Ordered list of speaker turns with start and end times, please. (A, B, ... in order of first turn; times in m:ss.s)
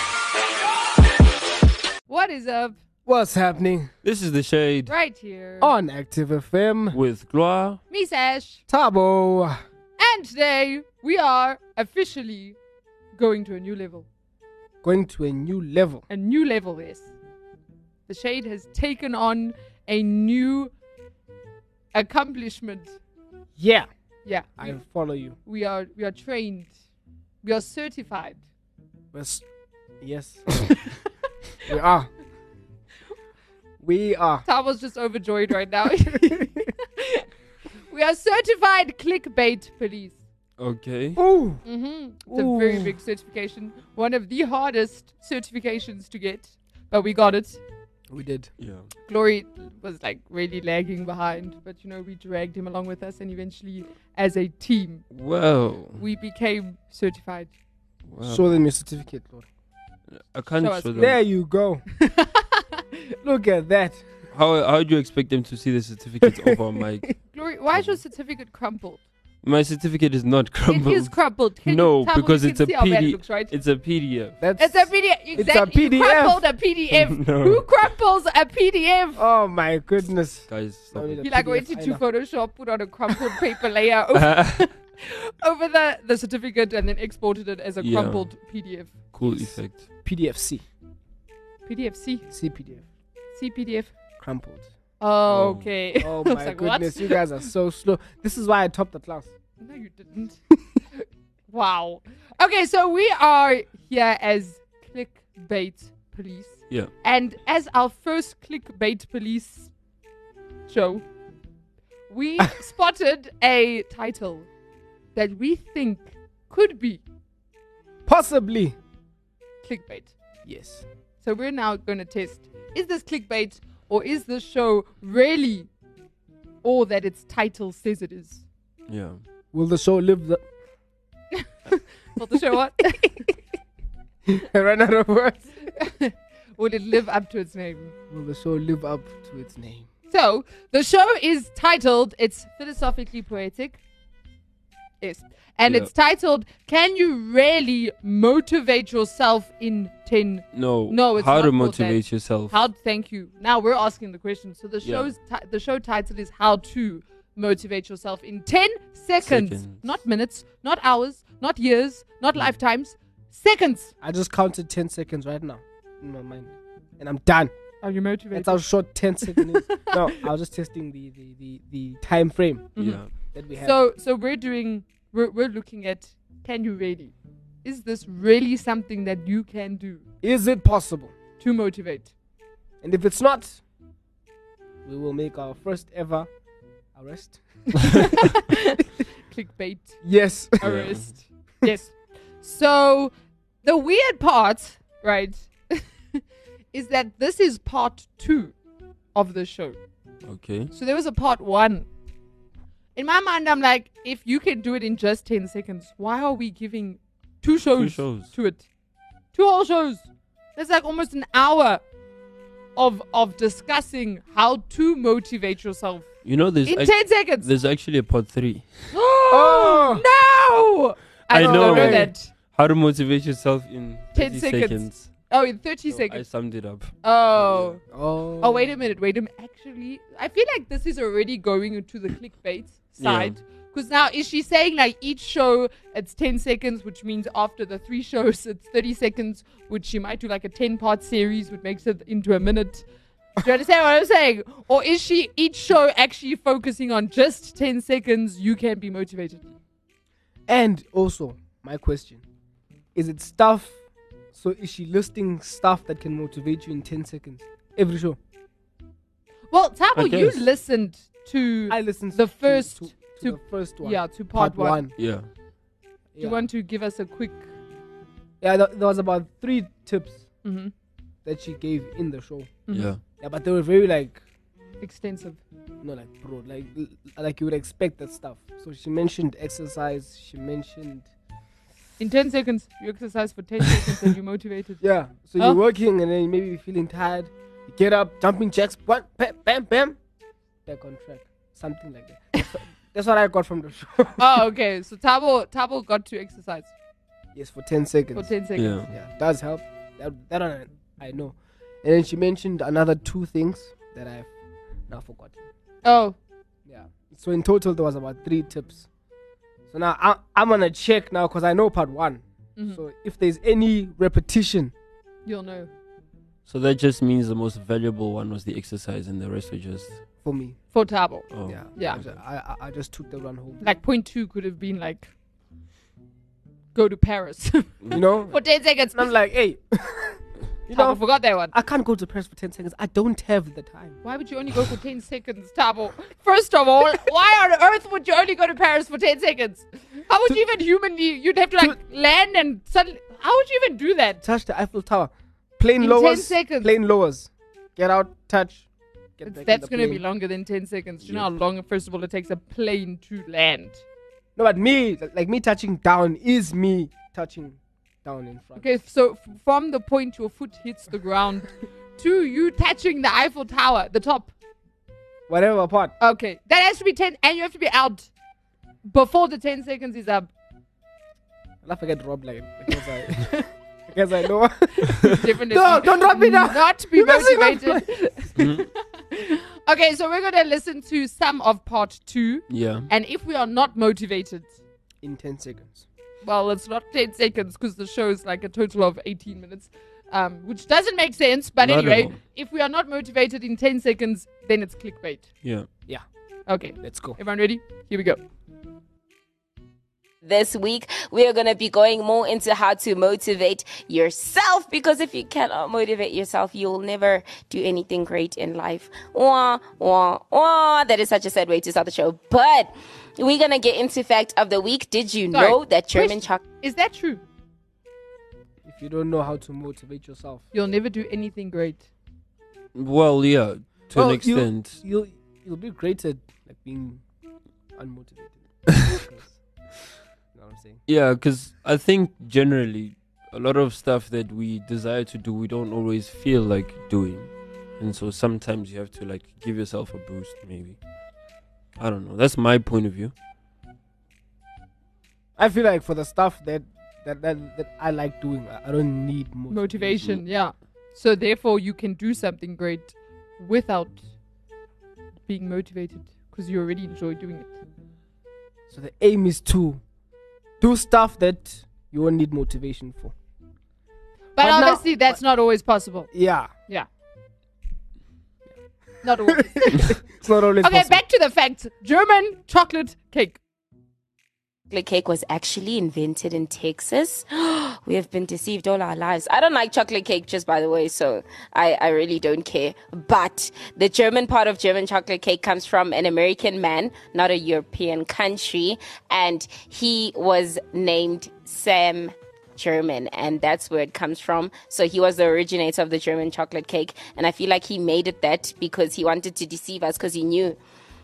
0:02.1-0:02.8 A
0:03.0-0:03.9 B
0:04.0-0:04.9 C
0:04.9-0:05.7 A
0:05.6-0:07.0 B
0:06.9-0:07.8 C
0:07.9-0:08.6 A
0:08.7-0:09.6 B
0:10.0-0:12.6 A
0:13.1-0:14.0 A
0:14.8-0:16.0 B
0:16.1-0:17.1 A
0:18.1-0:20.7 A
0:21.9-0:23.0 A
0:23.6-0:23.9 B
0:24.2-0:24.8 A
0:24.6-0:25.4 B
0:25.4-0:26.7 A
0:27.4-0:28.4 A
0:29.1-0:29.4 B
0:30.0-0:30.9 B
0:31.6-0:32.1 B
0:33.8-0:34.4 B
0:34.4-0:37.2 A
0:37.9-0:40.2 A
0:40.6-0:41.2 C
0:41.2-0:41.6 B
0:41.6-0:47.6 A
0:42.3-0:42.9 B
0:48.1-0:48.5 B
0:48.6-0:48.9 C
0:49.1-0:55.0 A
0:55.1-0:56.0 C
0:56.0-0:57.5 A
0:58.1-0:58.5 C
0:58.2-0:59.4 B
1:00.1-1:01.2 C
1:00.6-1:01.1 A
1:01.0-1:01.8 B
1:02.0-1:02.8 A
1:03.2-1:04.0 B
1:04.3-1:07.1 C
1:07.3-1:09.0 A
1:07.7-1:08.0 C
1:09.4-1:14.4 C
1:10.7-1:13.5 A
1:14.4-1:16.4 B
1:14.6-1:19.2 A
1:16.9-1:17.6 C
1:19.2-1:22.0 B
1:20.5-1:21.2 C
1:21.2-1:28.9 A
1:24.1-1:24.7 C
1:27.8-1:28.3 C
1:29.1-1:29.9 C
1:30.0-1:30.6 B
1:31.6-1:32.3 A
1:32.3-1:32.8 B
1:33.3-1:33.9 A
1:34.2-1:34.7 B
1:35.0-1:37.2 A
1:35.3-1:35.6 C
1:36.0-1:39.3 B
1:39.6-1:40.4 A
1:41.0-1:49.7 A
1:50.7-1:51.0 A
1:52.1-1:54.5 A
1:55.1-1:57.0 A
1:58.0-1:58.8 B
1:59.6-2:00.1 A
2:00.4-2:00.8 B
2:01.2-2:05.7 A
2:06.6-2:08.4 A
2:08.9-2:09.2 C
2:09.5-2:10.4 B
2:11.4-2:13.3 A
2:14.2-2:15.5 B
2:15.7-2:17.9 A
2:18.1-2:19.9 B
2:20.1-2:23.8 A
2:25.0-2:43.9 A
2:30.5-2:32.5 C
2:34.8-2:35.1 C
2:39.2-2:39.8 C
2:44.0-2:47.5 B
2:47.8-2:48.7 A
2:48.3-2:53.8 B
2:49.2-2:50.2 A
2:52.8-3:00.0 A
2:52.8-2:53.1 C
3:00.2-3:01.1 B
3:01.4-3:02.1 A
3:02.8-3:03.6 B
3:04.8-3:06.3 B
3:06.9-3:07.8 B
3:07.9-3:10.0 A
3:10.0-3:10.6 B
3:10.6-3:13.1 A
3:10.6-3:11.1 C
3:13.6-3:16.2 A
3:16.7-3:18.5 A
3:19.1-3:19.8 A
3:20.2-3:20.7 C
3:20.7-3:21.9 A
3:23.0-3:28.6 A
3:27.7-3:28.3 C
3:29.3-3:31.8 A
3:32.8-3:36.1 A
3:36.2-3:38.9 C
3:36.6-3:37.5 A
3:38.9-3:42.3 A
3:39.3-3:40.0 B
3:41.3-3:45.1 C
3:41.3-3:42.1 B
3:44.1-3:46.2 A
3:45.9-3:47.8 C
3:47.0-3:47.8 A
3:47.9-3:48.7 B
3:48.4-4:02.8 A
3:53.0-3:53.4 C
4:03.4-4:09.4 A
4:10.5-4:12.2 B
4:12.9-4:13.8 B
4:14.3-4:18.2 B
4:19.5-4:24.8 A
4:19.9-4:20.4 C
4:21.7-4:24.9 B
4:25.0-4:25.3 C
4:26.1-4:26.4 B
4:26.2-4:27.5 A
4:28.4-4:30.2 B
4:30.4-4:30.7 A
4:31.2-4:32.6 B
4:32.7-4:32.9 A
4:32.7-4:33.0 C
4:33.2-4:34.2 B
4:34.8-4:35.4 A
4:35.8-4:41.1 B
4:42.0-4:44.8 A
4:44.8-4:50.0 B
4:50.6-4:54.4 B
4:54.2-4:56.7 A
4:57.3-4:58.3 B
4:58.1-4:58.8 A
4:58.6-4:58.9 C
4:58.9-5:04.3 B
5:04.9-5:05.4 B
5:05.8-5:06.2 A
5:06.6-5:08.9 B
5:09.7-5:14.7 B
5:15.2-5:15.7 A
5:16.4-5:20.0 C
5:20.2-5:20.6 B
5:20.7-5:22.0 A
5:21.3-5:22.1 C
5:21.4-5:23.6 B
5:23.6-5:25.1 A
5:26.7-5:29.1 A
5:27.9-5:34.0 B
5:30.7-5:31.5 A
5:34.0-5:44.2 A
5:44.2-5:48.6 B
5:45.8-5:46.7 A
5:49.2-5:50.0 B
5:49.2-5:53.8 A
5:51.0-5:51.3 C
5:54.4-5:58.6 B
5:58.6-6:04.3 A
6:05.3-6:05.9 B
6:06.0-6:08.1 A
6:08.8-6:10.3 A
6:11.6-6:17.9 B
6:13.2-6:13.4 A
6:14.8-6:24.5 A
6:18.4-6:18.7 C
6:22.5-6:22.9 C
6:25.0-6:25.8 B
6:26.2-6:35.3 A
6:31.6-6:32.2 C
6:36.5-6:38.2 A
6:36.8-6:37.2 B
6:40.2-6:56.4 D
6:55.3-6:57.2 A
6:58.6-7:00.4 B
7:00.5-7:01.9 A
7:02.7-7:04.8 C
7:03.9-7:07.0 B
7:07.8-7:09.4 B
7:10.3-7:10.8 B
7:10.9-7:20.8 C
7:21.8-7:23.1 C
7:25.4-7:30.0 B
7:29.5-7:34.0 A
7:35.3-7:37.5 A
7:38.7-7:39.8 B
7:40.6-7:43.1 B
7:44.4-7:46.1 A
7:44.4-7:45.2 B
7:46.1-7:46.5 B
7:49.0-7:50.0 A
7:49.3-7:51.0 B
7:50.6-7:53.4 A
7:54.7-8:20.6 D